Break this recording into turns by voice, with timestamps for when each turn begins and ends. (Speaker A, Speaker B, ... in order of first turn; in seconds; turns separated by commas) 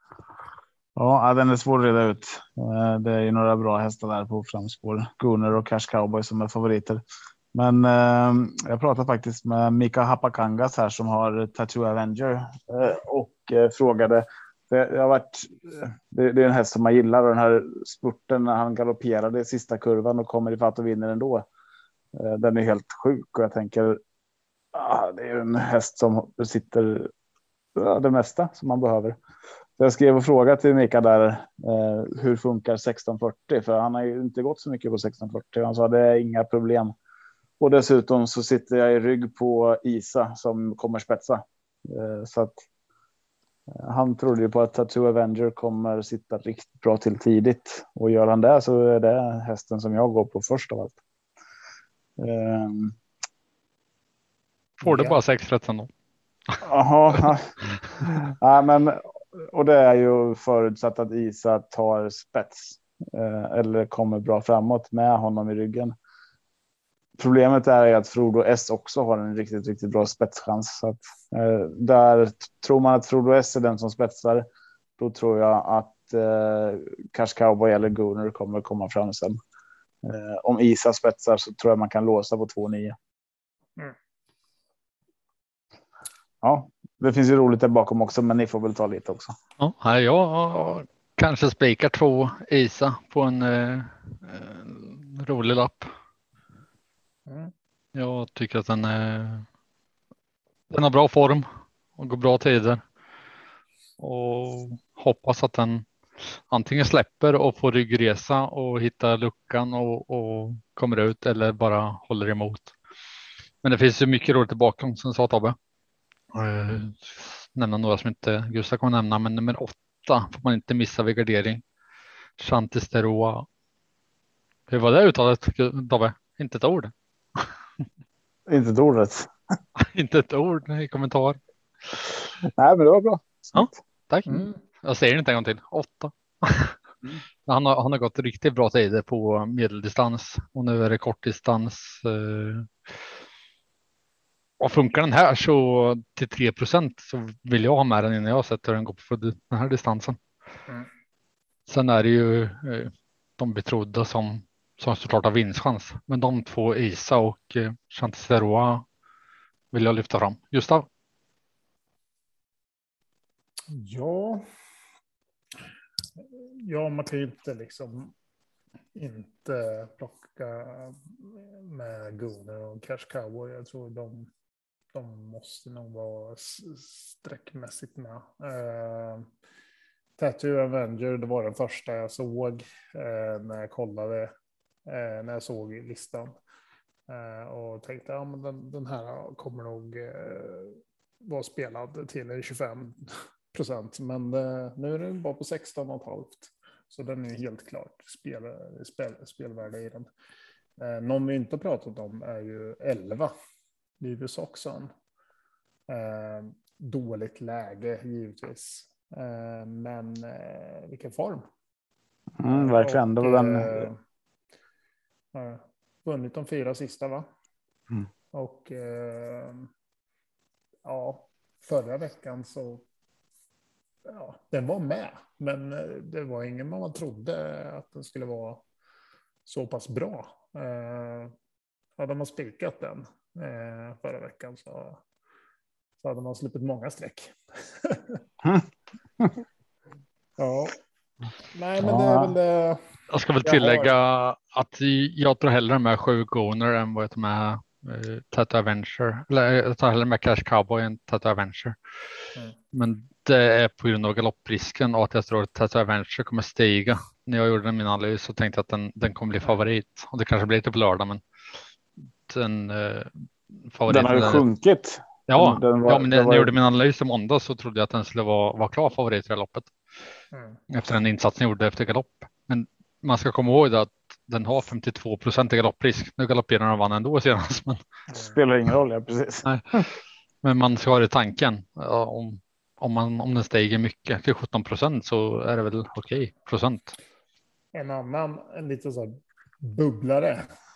Speaker A: 0.9-7.0, Speaker A: 7.5-21.4, Speaker A: 22.1-24.0, Speaker A: 24.7-27.1, Speaker A: 27.7-29.2, Speaker A: 29.8-36.9, Speaker A: 37.6-42.6, Speaker A: 43.7-51.0, Speaker A: 52.2-53.0, Speaker B: 54.8-55.2, Speaker C: 54.8-55.9, Speaker A: 56.6-65.9, Speaker A: 67.2-74.5, Speaker A: 75.0-79.4, Speaker A: 80.0-83.0, Speaker A: 86.4-89.3, Speaker C: 89.6-95.9, Speaker B: 97.3-97.5, Speaker C: 97.9-99.5, Speaker C: 100.7-101.5, Speaker C: 102.0-102.8, Speaker C: 104.0-112.7, Speaker C: 113.6-115.5, Speaker C: 116.3-121.6, Speaker C: 122.4-123.5, Speaker C: 124.7-127.5, Speaker A: 128.5-129.3, Speaker C: 129.8-131.4, Speaker A: 132.4-133.7, Speaker C: 133.5-136.8, Speaker B: 134.3-134.6, Speaker C: 137.4-142.7, Speaker C: 144.6-150.2, Speaker C: 151.7-158.8, Speaker C: 159.7-160.9, Speaker B: 163.7-164.4, Speaker B: 166.2-168.1, Speaker B: 168.9-174.3, Speaker B: 174.9-179.3, Speaker B: 180.2-184.3, Speaker B: 184.8-186.3, Speaker B: 187.1-200.1, Speaker B: 200.8-203.3, Speaker B: 204.0-204.9, Speaker B: 205.9-211.4, Speaker A: 212.4-213.9, Speaker B: 212.4-214.0, Speaker B: 215.3-217.2, Speaker B: 218.3-219.7, Speaker B: 220.8-222.8, Speaker B: 224.1-228.6, Speaker B: 229.4-231.3, Speaker B: 232.0-235.0, Speaker B: 236.0-238.2, Speaker B: 240.4-240.8, Speaker B: 241.5-242.8, Speaker A: 241.8-242.3, Speaker C: 243.1-251.8, Speaker B: 243.4-243.9, Speaker C: 252.7-261.2, Speaker C: 262.3-264.4, Speaker A: 263.9-266.5, Speaker C: 265.3-269.7, Speaker B: 270.3-270.6, Speaker C: 270.7-277.8, Speaker B: 278.1-278.4, Speaker A: 278.2-279.8, Speaker C: 279.4-279.9, Speaker C: 280.4-286.9, Speaker B: 287.7-290.5